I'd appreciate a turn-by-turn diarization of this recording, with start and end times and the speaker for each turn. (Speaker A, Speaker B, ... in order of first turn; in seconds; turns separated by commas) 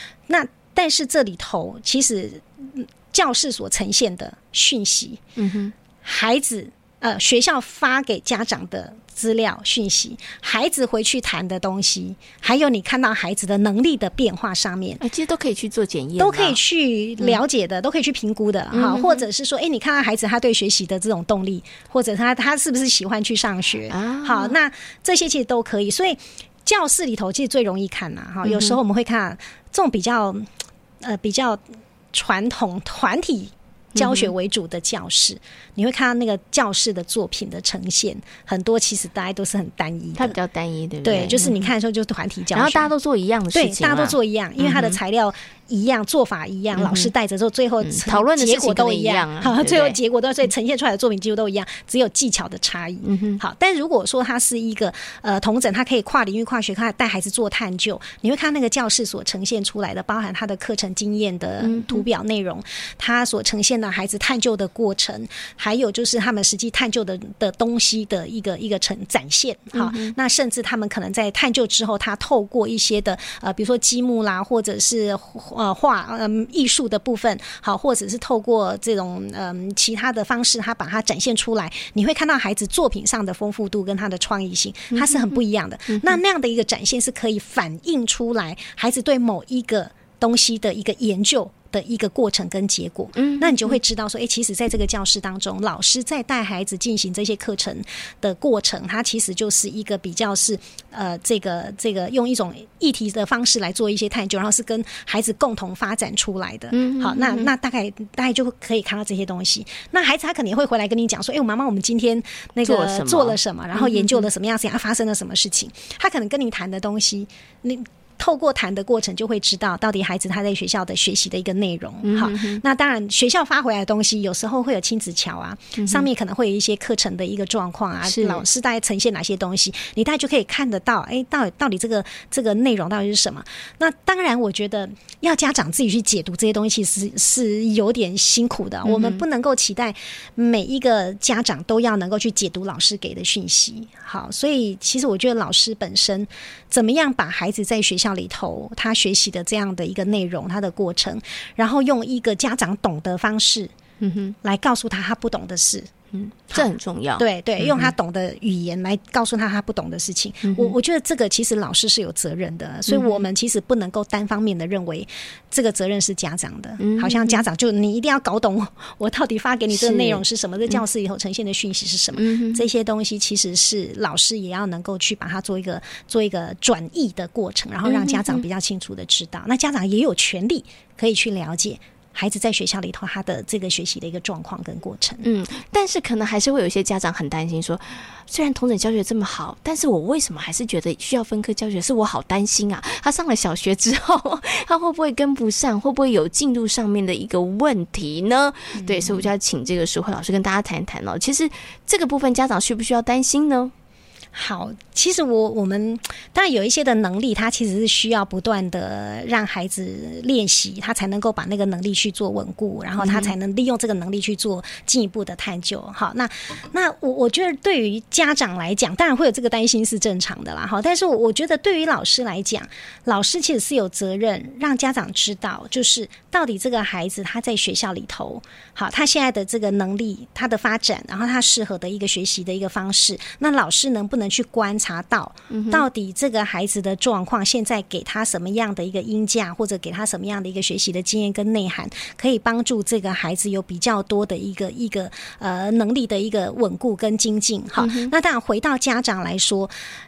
Speaker A: 0.3-5.2, Speaker B: 5.4-5.7, Speaker A: 6.0-15.0, Speaker B: 15.0-16.6, Speaker A: 16.2-30.5, Speaker B: 18.7-19.3, Speaker B: 23.9-24.6, Speaker B: 28.4-28.8, Speaker A: 31.0-31.6, Speaker A: 32.1-40.4, Speaker B: 34.0-34.3, Speaker B: 40.2-41.7, Speaker A: 41.0-42.9, Speaker B: 42.5-45.0, Speaker A: 43.5-153.7, Speaker B: 46.8-47.1, Speaker B: 47.8-50.0, Speaker B: 53.0-53.4, Speaker B: 61.6-62.0, Speaker B: 69.7-70.2, Speaker B: 84.9-85.4, Speaker B: 85.9-86.2, Speaker B: 93.2-93.8, Speaker B: 106.7-107.5, Speaker B: 112.6-114.3, Speaker B: 122.0-122.6, Speaker B: 125.8-126.1, Speaker B: 128.0-128.4, Speaker B: 138.8-139.2, Speaker B: 154.0-154.3, Speaker A: 154.4-155.9, Speaker B: 156.1-157.9, Speaker A: 157.2-185.2, Speaker B: 160.5-160.7, Speaker B: 162.9-163.3, Speaker B: 166.8-167.5, Speaker B: 169.7-170.8, Speaker B: 172.1-172.7, Speaker B: 177.8-178.4, Speaker B: 185.2-203.7, Speaker A: 198.8-199.3, Speaker A: 204.3-249.7, Speaker B: 213.0-213.3, Speaker B: 235.5-235.8, Speaker B: 247.8-248.1